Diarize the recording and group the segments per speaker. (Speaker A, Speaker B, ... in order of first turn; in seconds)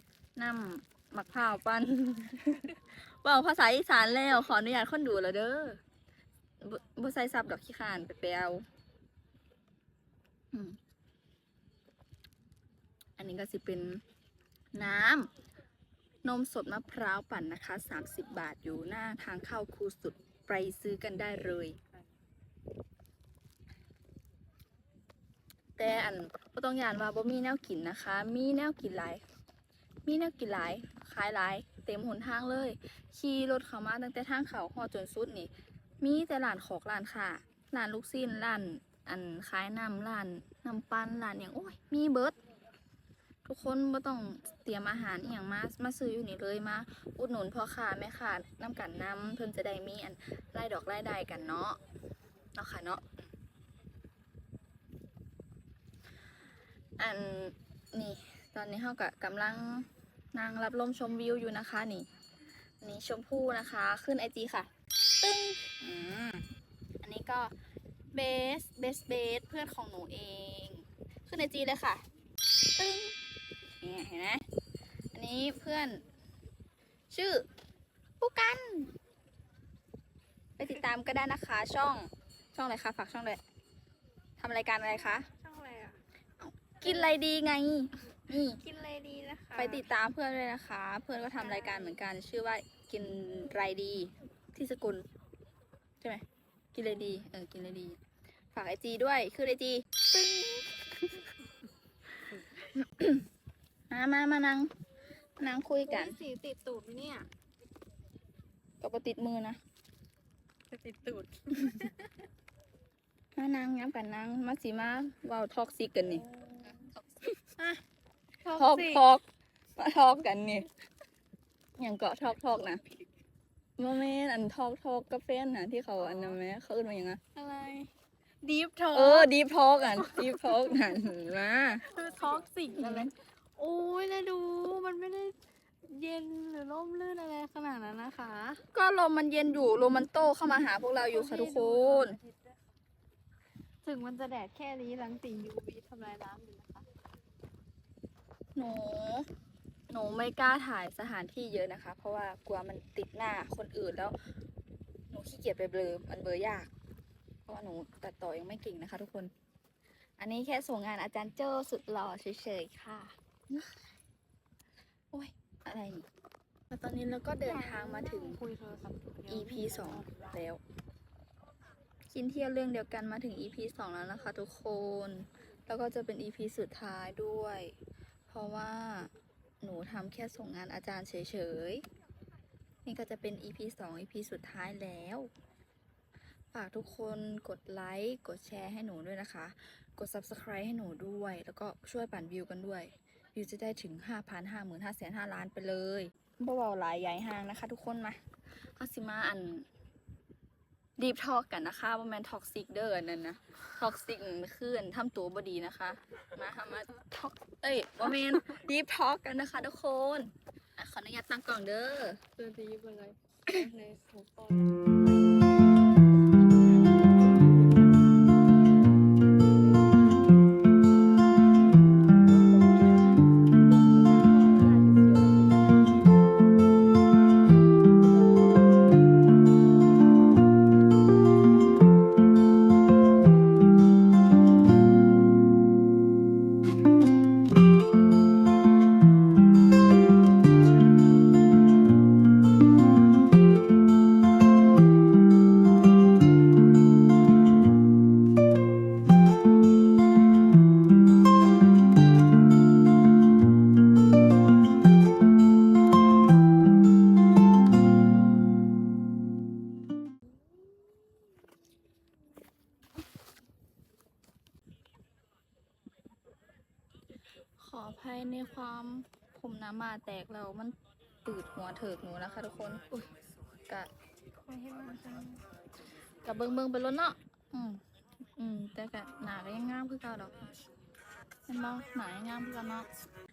Speaker A: 0.3-5.8, 6.6-8.6, 10.5-10.8, 13.2-14.0, 14.7-15.3, 16.2-21.8, 25.8-29.2, 30.0-42.4, 43.4-51.8, 52.5-53.2, 57.0-62.1, 62.8-66.5, 67.0-67.5, 68.1-72.0, 72.7-73.2, 73.8-74.4, 75.1-76.0, 77.1-77.5, 78.2-78.9, 80.6-83.4, 84.4-85.3, 86.4-88.6, 89.5-95.0, 96.0-98.0, 98.5-101.3, 102.3-103.2, 103.9-104.7, 105.4-106.2, 108.8-109.6, 113.3-116.3, 117.2-117.5, 118.5-120.7, 121.8-122.8, 123.8-127.2, 128.9-131.9, 132.7-133.1, 138.7-142.2, 148.5-149.3, 149.9-154.3, 155.1-156.7, 157.4-159.3, 160.2-163.9, 165.1-166.1, 166.7-168.4, 169.3-170.6, 172.1-177.7, 178.3-181.8, 182.8-185.3, 186.5-198.2, 198.7-199.7, 201.0-212.2, 216.4-217.7, 222.3-226.2, 267.6-273.1, 274.4-275.4, 276.2-277.8, 278.4-280.5, 281.5-282.9
Speaker B: 85.2-86.0, 88.6-89.8, 91.4-91.9, 105.8-107.3, 110.7-112.1, 116.3-116.8, 118.4-119.0, 126.0-126.4, 127.3-127.9, 128.4-129.3, 130.1-130.8, 131.8-138.6, 140.8-142.5, 143.8-146.8, 167.4-170.3, 212.3-215.3, 217.1-217.7, 219.7-220.3